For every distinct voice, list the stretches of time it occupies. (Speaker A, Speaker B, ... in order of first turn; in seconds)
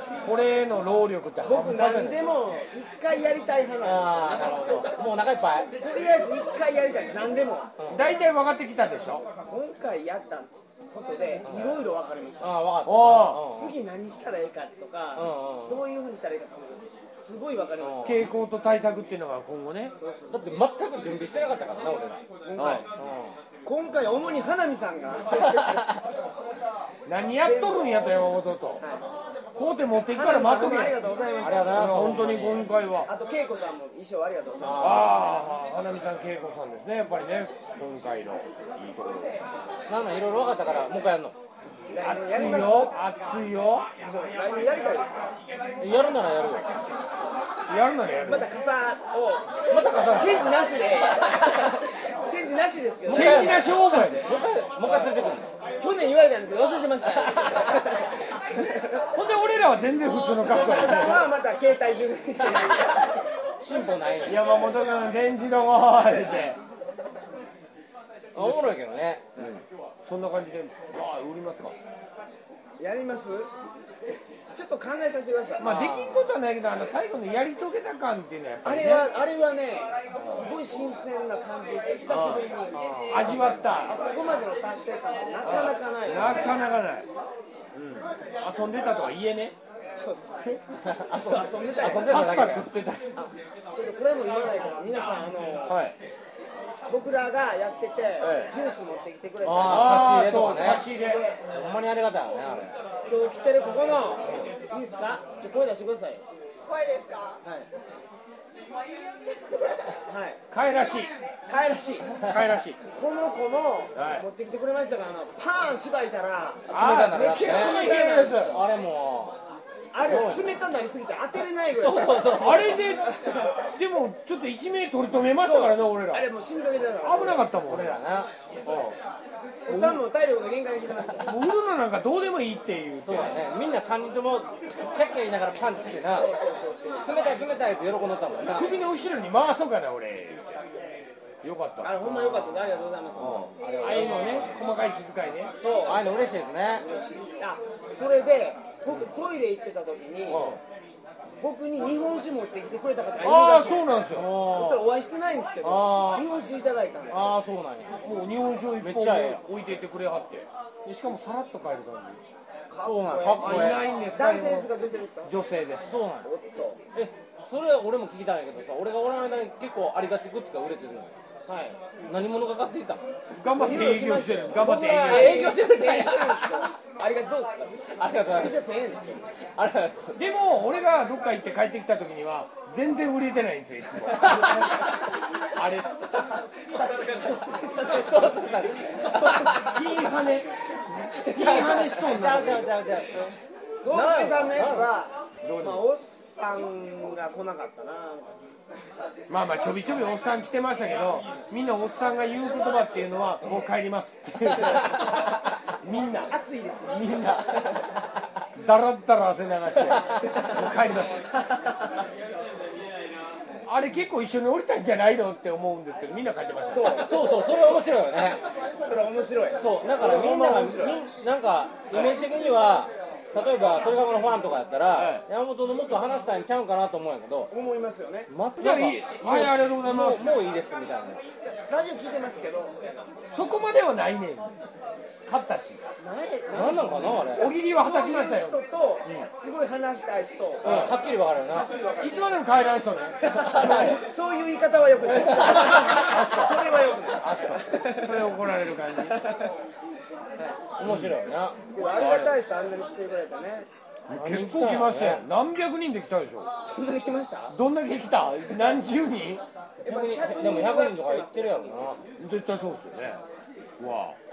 Speaker A: 0.2-2.2, 7.9-9.2, 12.8-13.4, 18.0-19.9, 22.6-22.8, 27.1-28.8, 29.5-31.0, 31.7-33.1, 34.7-39.4, 42.0-43.9, 47.7-48.5, 49.7-50.3, 53.1-54.3, 59.1-61.3, 64.2-66.6, 68.4-68.7, 69.4-71.7, 75.6-79.1, 82.1-82.4, 83.1-84.0, 85.4-87.1, 87.7-89.5, 92.0-93.0, 95.7-95.9, 98.2-98.5, 99.6-101.2, 110.5-111.1, 112.2-112.8, 113.9-114.2, 116.7-118.6, 122.3-123.2, 123.8-126.3, 127.0-128.0, 128.7-129.0, 129.7-130.0, 131.2-133.3, 138.5-140.6, 141.4-142.0, 143.2-145.5, 150.3-150.6, 153.2-154.3, 158.0-162.2, 163.4-164.7, 165.2-166.0, 173.4-175.5, 180.2-184.7, 185.5-185.9, 189.4-190.5, 191.0-192.7, 195.4-195.8, 199.3-205.3, 205.8-206.3, 207.0-207.4, 208.6-211.3, 213.6-217.1, 224.9-225.2, 228.6-230.4, 233.3-234.5, 235.3-235.8, 237.3-238.6, 240.6-240.9, 242.0-243.9, 245.4-249.2, 250.8-251.1, 251.8-252.3, 254.1-256.5, 257.5-259.4, 262.2-263.2, 263.8-264.2
Speaker B: 1.4-4.7, 5.8-7.7, 9.4-12.5, 13.4-18.2, 20.0-20.6, 22.4-22.8, 23.6-26.0, 27.4-28.1, 30.1-31.8, 33.1-35.2, 41.9-42.9, 44.0-45.3, 48.2-49.5, 50.0-53.7, 55.8-59.0, 60.2-63.2, 72.8-73.5, 74.5-75.7, 78.6-82.8, 83.8-86.6, 89.9-92.2, 93.2-95.8, 96.9-101.4, 103.0-107.7, 110.1-110.4, 111.5-112.2, 112.8-118.6, 119.9-123.6, 125.4-127.5, 129.7-131.4, 136.1-137.1, 141.8-143.5, 145.6-146.1, 146.8-150.5, 151.4-157.4, 162.7-165.3, 166.2-166.8, 171.5-171.8, 173.5-179.2, 186.7-189.8, 193.8-198.3, 206.3-207.4, 210.2-210.5, 211.5-211.9, 216.7-217.2, 218.8-221.0, 227.5-228.3, 231.7-232.8, 236.0-240.9, 241.5-242.3, 243.3-248.2, 249.1-249.5, 251.7-253.7, 256.6-257.6, 259.8-261.9
Speaker C: 3.8-5.7, 7.8-8.1, 11.4-11.8, 12.4-13.8, 15.1-15.8, 17.8-18.3, 20.3-22.2, 23.0-23.4, 31.4-32.7, 34.6-35.3, 39.9-41.4, 45.8-46.7, 49.7-50.5, 53.1-55.5, 63.6-64.6, 68.3-69.2, 75.6-76.3, 82.7-83.8, 90.8-92.7, 99.4-100.9, 101.5-102.8, 116.7-119.4, 120.0-120.5, 121.8-122.8, 127.7-128.3, 133.0-136.3, 137.0-138.8, 142.0-142.9, 143.6-144.6, 145.8-146.8, 154.1-154.9, 155.6-156.3, 157.1-158.0, 158.8-159.4, 162.8-163.8, 165.8-166.3, 166.9-171.2, 172.1-173.0, 175.0-176.5, 178.0-178.7, 179.6-180.2, 187.9-189.8, 191.3-193.3, 193.9-194.9, 217.0-218.4, 219.6-227.5, 228.3-231.2, 236.5-237.5, 240.6-241.7, 243.4-244.0, 250.8-251.6, 254.1-255.2, 259.9-262.0